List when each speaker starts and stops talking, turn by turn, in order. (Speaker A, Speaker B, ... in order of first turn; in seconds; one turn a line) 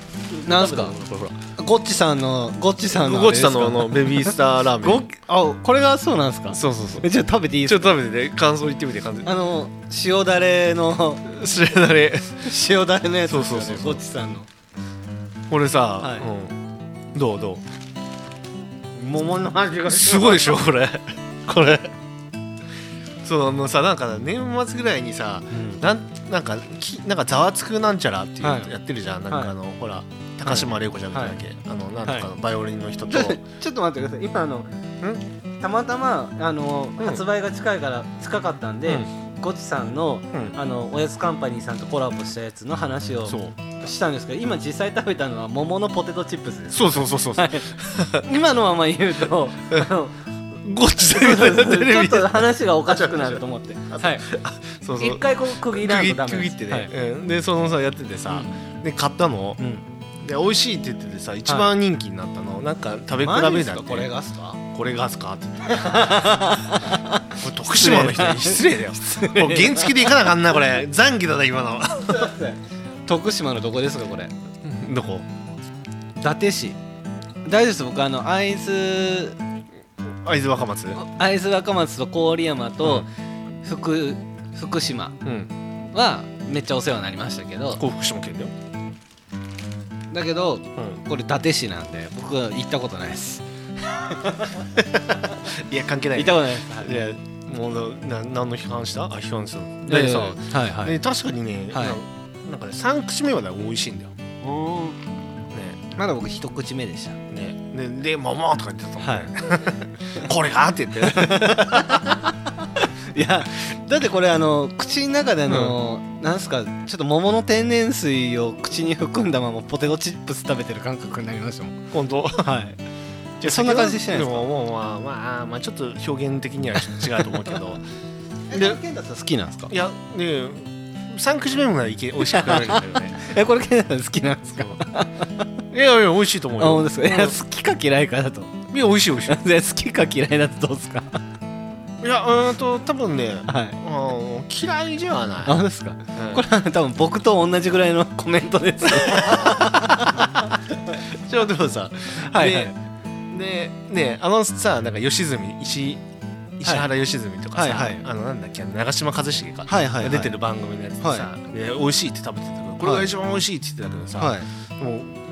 Speaker A: 0.3-1.4
Speaker B: 0.4-1.0
Speaker B: 1.6-8.0
Speaker A: 2.9-5.1
Speaker A: 6.5-7.1
Speaker A: 7.7-9.3
Speaker B: 9.2-11.3
Speaker A: 11.3-12.5
Speaker B: 12.4-14.5
Speaker A: 13.2-14.0
Speaker A: 15.5-16.6
Speaker B: 16.0-16.3
Speaker A: 17.1-17.6
Speaker B: 18.9-20.6
Speaker A: 19.9-21.9
Speaker A: 23.2-33.4
Speaker B: 25.5-25.8
Speaker B: 28.4-28.7
Speaker B: 29.3-29.5
Speaker B: 30.4-31.4
Speaker B: 32.0-32.3
Speaker B: 33.1-34.7
Speaker B: 35.6-50.2
Speaker A: 43.3-43.6
Speaker A: 46.7-48.3
Speaker A: 50.6-59.6
Speaker B: 51.0-54.3
Speaker B: 55.0-56.9
Speaker B: 58.3-58.5
Speaker B: 59.6-59.8
Speaker A: 60.2-64.1
Speaker B: 63.2-64.6
Speaker A: 64.7-66.6
Speaker B: 65.7-70.3
Speaker A: 67.3-72.3
Speaker B: 72.1-74.3
Speaker A: 74.6-75.3
Speaker B: 76.2-76.8
Speaker B: 77.5-79.4
Speaker A: 80.2-81.0
Speaker B: 81.0-83.1
Speaker A: 82.8-83.1
Speaker B: 83.6-85.2
Speaker A: 85.2-85.5
Speaker B: 85.9-87.8
Speaker A: 87.8-88.5
Speaker B: 90.1-95.4
Speaker A: 95.5-104.1
Speaker B: 96.1-97.0
Speaker B: 99.9-101.0
Speaker B: 101.7-102.0
Speaker B: 104.4-105.0
Speaker A: 105.5-105.8
Speaker B: 105.9-107.2
Speaker A: 107.3-112.1
Speaker B: 109.0-109.7
Speaker B: 111.1-121.9
Speaker A: 115.5-115.8
Speaker A: 121.9-122.5
Speaker B: 122.4-122.8
Speaker A: 123.4-127.8
Speaker B: 123.4-124.5
Speaker B: 128.5-129.7
Speaker A: 128.5-128.8
Speaker A: 129.7-133.2
Speaker B: 132.2-135.5
Speaker A: 135.7-137.4
Speaker B: 136.6-138.6
Speaker A: 138.7-139.4
Speaker B: 139.2-141.2
Speaker A: 142.0-145.6
Speaker B: 143.5-143.8
Speaker B: 145.4-150.5
Speaker A: 146.2-146.4
Speaker A: 149.1-149.8
Speaker A: 151.0-152.7
Speaker B: 152.1-152.8
Speaker A: 153.3-156.0
Speaker A: 156.6-165.1
Speaker B: 157.6-158.1
Speaker B: 159.7-160.3
Speaker B: 161.0-161.3
Speaker B: 162.8-163.1
Speaker B: 164.2-164.5